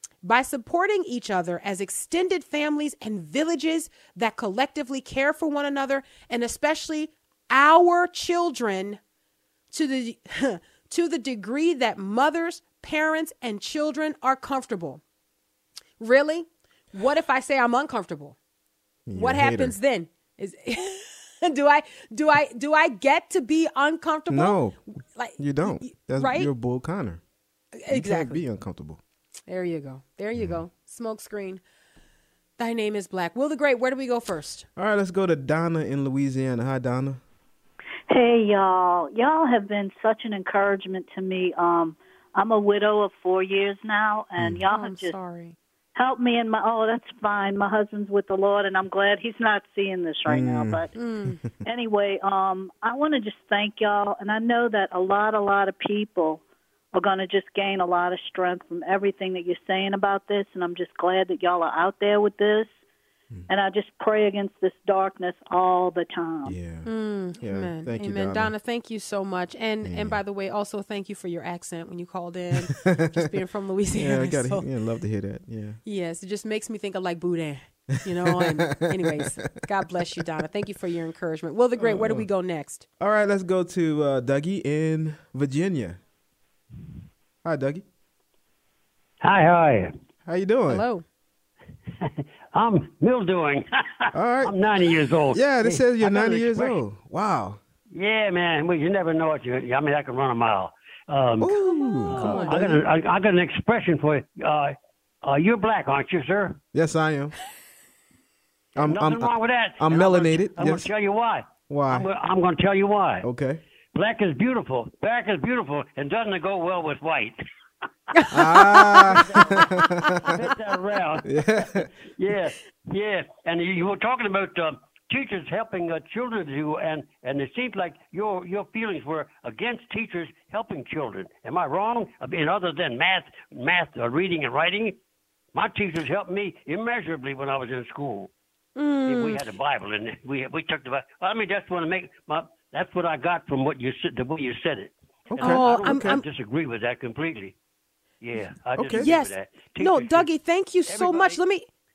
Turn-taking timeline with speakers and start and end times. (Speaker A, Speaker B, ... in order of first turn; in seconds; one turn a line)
Speaker A: 0.2-9.0
Speaker A: 9.7-15.0
Speaker A: 16.0-18.4
Speaker B: 19.1-19.8
Speaker A: 19.1-26.5
Speaker B: 24.3-24.8
Speaker B: 25.4-27.2
Speaker A: 27.8-28.4
Speaker B: 27.9-29.0
Speaker A: 29.5-31.6
Speaker B: 30.4-30.6
Speaker A: 32.6-34.7
Speaker B: 34.8-37.2
Speaker C: 38.1-45.2
Speaker B: 44.4-44.7
Speaker A: 44.7-45.6
Speaker C: 46.0-51.0
Speaker B: 50.3-50.9
Speaker A: 51.0-51.4
Speaker C: 51.6-56.4
Speaker C: 56.9-62.7
Speaker C: 63.5-66.6
Speaker B: 66.5-68.5
Speaker A: 66.8-74.7
Speaker B: 69.8-70.2
Speaker B: 72.6-73.3
Speaker B: 73.9-75.8
Speaker A: 75.8-82.9
Speaker B: 78.0-80.3
Speaker B: 81.8-82.3
Speaker B: 83.0-86.0
Speaker B: 87.4-87.9
Speaker D: 89.2-89.9
Speaker B: 90.3-90.8
Speaker A: 90.7-91.0
Speaker D: 92.0-96.8
Speaker B: 94.1-94.6
Speaker B: 95.3-97.6
Speaker D: 98.0-106.6
Speaker B: 101.4-102.8
Speaker A: 101.8-102.6
Speaker B: 106.7-107.4
Speaker B: 108.8-110.9
Speaker D: 108.8-113.3
Speaker B: 111.7-112.1
Speaker B: 113.2-113.6
Speaker D: 113.9-117.4
Speaker A: 118.2-120.1
Speaker D: 118.2-135.0
Speaker B: 118.3-120.3
Speaker B: 121.2-121.9
Speaker D: 135.5-138.3
Speaker A: 138.8-139.4
Speaker D: 139.1-147.6
Speaker B: 145.3-146.2
Speaker A: 145.4-146.2
Speaker D: 148.2-150.3
Speaker B: 148.8-149.1
Speaker A: 148.9-151.7
Speaker D: 150.9-151.4